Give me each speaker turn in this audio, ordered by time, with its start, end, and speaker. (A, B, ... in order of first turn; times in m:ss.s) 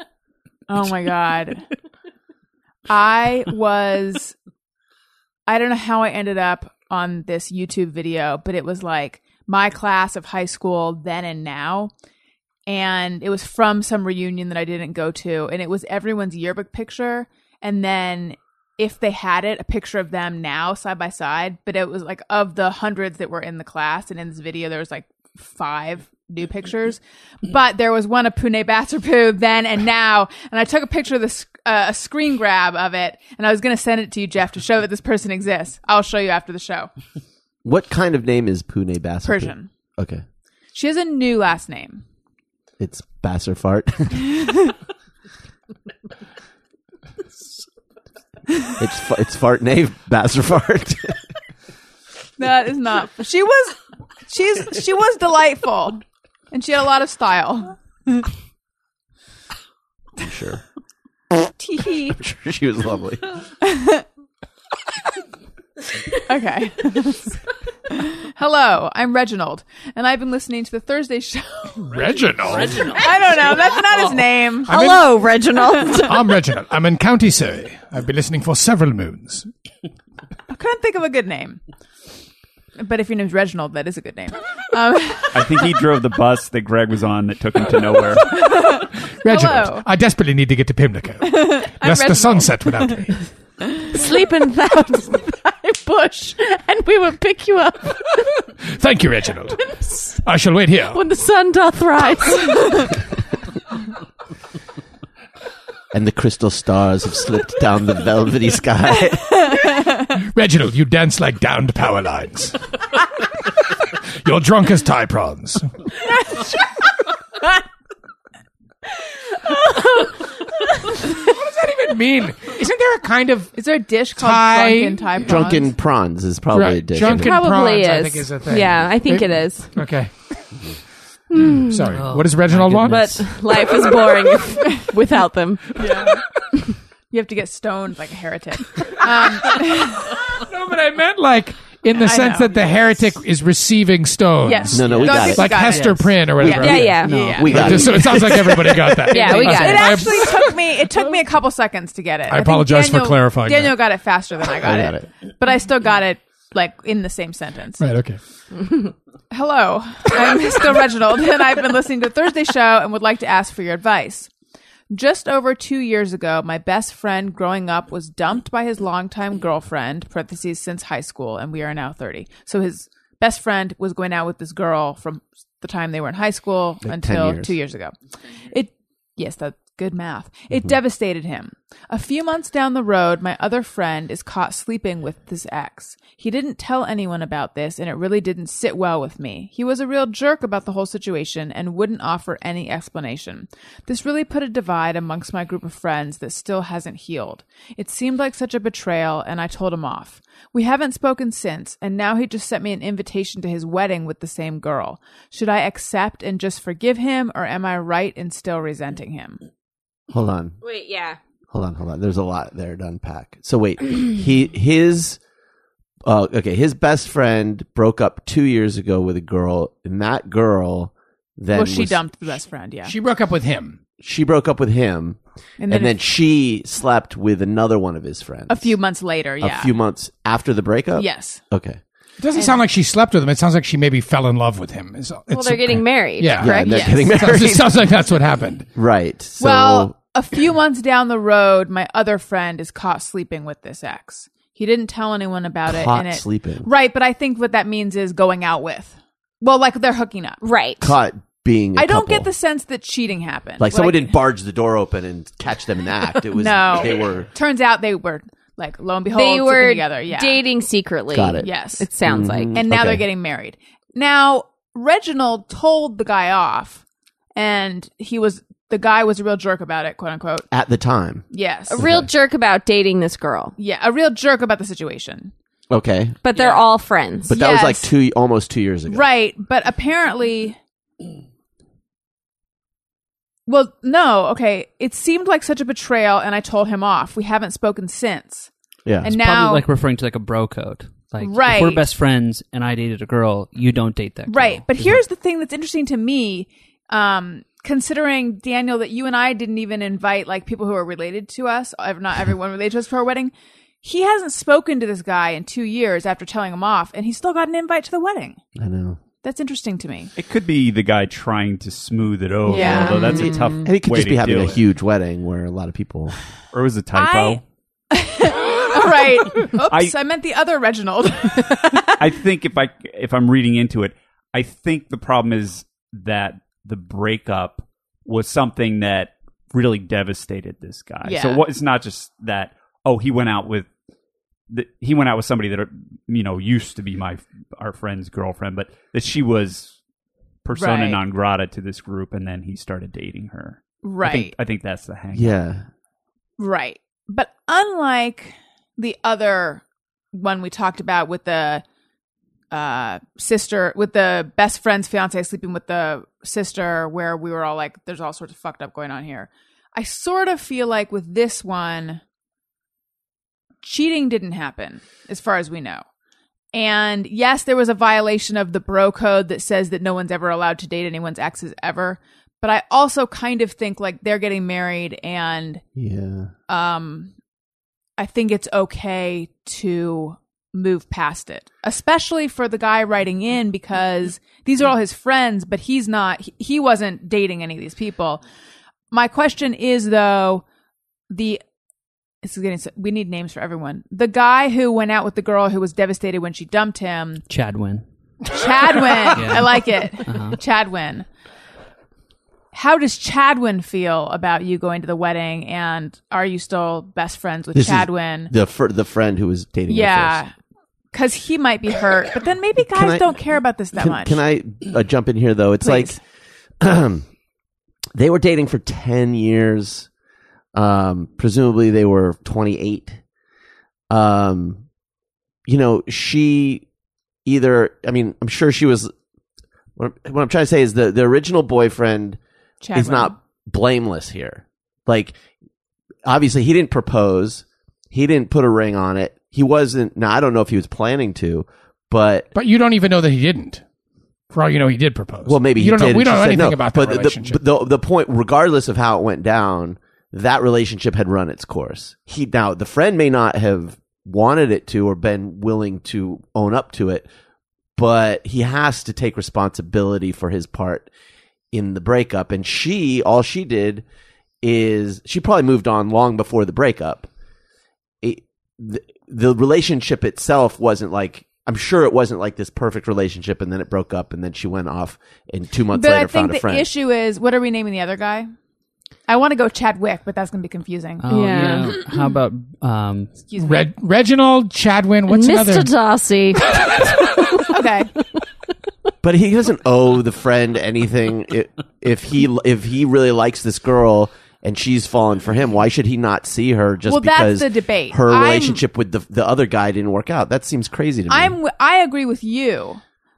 0:00.7-0:01.6 A
0:02.9-0:04.3 A
0:05.5-0:11.9 A
0:12.7-0:36.9 A
0:37.6-0:40.2 B
0:39.2-0:39.7 A
0:40.7-0:42.0 A
0:42.8-0:44.3 B
0:48.8-0:51.2 B
0:52.4-0:58.3 A
1:00.2-1:00.6 B
1:01.6-1:02.2 A
1:02.1-1:03.2 B
1:03.6-1:04.0 A
1:06.2-1:07.4 A
1:07.9-1:11.9 A
1:11.8-1:13.0 C
1:12.7-1:14.7 A
1:14.7-1:16.2 D
1:14.7-1:15.3 C
1:16.0-1:19.5 C
1:20.5-1:21.6 A
1:22.8-1:25.6 A
1:25.3-1:28.4 E
1:28.2-1:29.9 A
1:29.2-1:33.2 C
1:31.2-1:33.0 A
1:33.9-1:38.3 D
1:38.7-1:39.6 C
1:39.8-1:40.1 D
1:40.2-1:41.0 C
1:40.9-1:43.0 D
1:45.9-1:49.5 B
1:49.6-1:49.9 A
1:50.1-1:52.6 C
1:54.2-1:55.7 C
2:01.1-2:03.6 C
2:03.5-2:05.7 A
2:04.2-2:05.2 C
2:05.2-2:07.4 B
2:06.5-2:10.1 C
2:07.0-2:09.7 D
2:11.3-2:11.9 D
2:11.4-2:13.2 C
2:11.9-2:13.4 F
2:12.8-2:15.8 D
2:15.8-2:16.2 A
2:17.1-2:20.2 A
2:20.4-2:30.5 C
2:22.0-2:22.6 A
2:24.4-2:27.9 A
2:24.7-2:25.5 B
2:24.7-2:28.1 F
2:26.5-2:27.8 D
2:27.3-2:28.3 B
2:29.0-2:30.2 D
2:29.1-2:37.8 A
2:32.3-2:33.8 C
2:34.6-2:35.1 B
2:37.8-2:38.2 C
2:39.3-2:44.3 A
2:44.9-2:57.9 A
2:56.8-2:57.6 B
2:58.5-3:29.4 A
3:30.1-3:30.6 B
3:30.6-3:31.2 D
3:31.5-3:35.2 B
3:36.0-3:42.0 B
3:41.5-3:42.9 A
3:42.8-3:43.8 C
3:44.0-3:48.7 B
3:45.6-3:46.0 A
3:48.5-3:49.7 A
3:49.4-3:51.8 B
3:51.0-3:51.4 A
3:52.2-3:58.7 C
3:55.3-3:56.8 D
3:56.4-3:57.7 B
3:56.6-3:57.0 A
3:58.7-3:59.9 B
3:59.4-4:10.4 A
4:05.7-4:06.7 B
4:10.4-4:10.9 D
4:10.8-4:12.3 B
4:11.8-4:14.1 A
4:13.6-4:17.3 B
4:16.3-4:20.4 A
4:19.1-4:22.5 D
4:21.1-4:21.5 B
4:21.4-4:21.9 A
4:22.0-4:23.0 B
4:22.5-4:26.8 A
4:27.4-4:30.5 A
4:30.5-4:31.2 B
4:31.3-4:31.8 A
4:31.7-4:33.5 D
4:31.8-4:32.1 B
4:33.6-4:35.3 A
4:35.7-4:36.2 B
4:36.2-4:37.3 D
4:36.3-4:36.6 A
4:37.3-4:39.0 B
4:37.3-4:37.9 A
4:38.9-4:40.6 A
4:43.5-4:48.5 A
4:48.8-4:49.1 B
4:49.0-4:49.6 A
4:49.0-4:55.0 F
4:51.2-4:51.8 A
4:54.3-5:08.4 A
5:08.6-5:09.0 B
5:09.2-5:10.1 A
5:10.2-5:14.6 E
5:12.5-5:13.3 A
5:12.5-5:16.1 B
5:16.5-5:17.4 E
5:16.9-5:21.9 A
5:19.7-5:20.0 E
5:21.9-5:33.7 E
5:31.0-5:31.4 A
5:34.5-5:39.7 E
5:40.4-5:45.4 E
5:40.5-5:41.0 A
5:43.8-5:44.3 A
5:45.1-5:45.6 B
5:46.4-5:51.6 A
5:52.5-6:02.0 A
6:03.6-6:05.8 A
6:06.5-6:15.6 A
6:15.8-6:16.3 B
6:16.5-6:17.1 A
6:18.0-6:28.2 A
6:28.9-6:30.4 A
6:31.1-6:31.4 A
6:32.2-6:37.2 A
6:37.3-6:37.8 F
6:38.3-6:41.0 A
6:39.1-6:40.4 F
6:42.5-6:48.3 A
6:47.5-6:50.2 B
6:49.7-6:50.3 A
6:50.9-6:54.2 A
6:52.7-6:53.2 B
6:53.7-6:56.0 B
6:55.6-6:56.0 A
6:56.6-6:57.0 B
6:57.9-6:59.9 B
7:00.5-7:03.0 B
7:03.9-7:04.6 B
7:05.4-7:06.6 B
7:07.2-7:08.9 B
7:09.8-7:12.2 B
7:12.6-7:13.2 A
7:12.7-7:15.2 B
7:16.0-7:22.3 B
7:22.3-7:23.6 C
7:24.3-7:27.4 C
7:25.2-7:37.1 B
7:37.8-7:40.9 B
7:41.5-7:43.8 B
7:44.4-7:47.1 B
7:48.0-7:56.7 B
7:55.7-7:58.3 A
7:59.1-8:01.0 A
8:01.0-8:03.2 F
8:01.1-8:01.8 D
8:03.3-8:03.6 A
8:03.4-8:05.7 C
8:05.1-8:07.5 D
8:07.5-8:07.9 A
8:09.0-8:21.4 B
8:16.9-8:18.6 A
8:21.1-8:22.8 A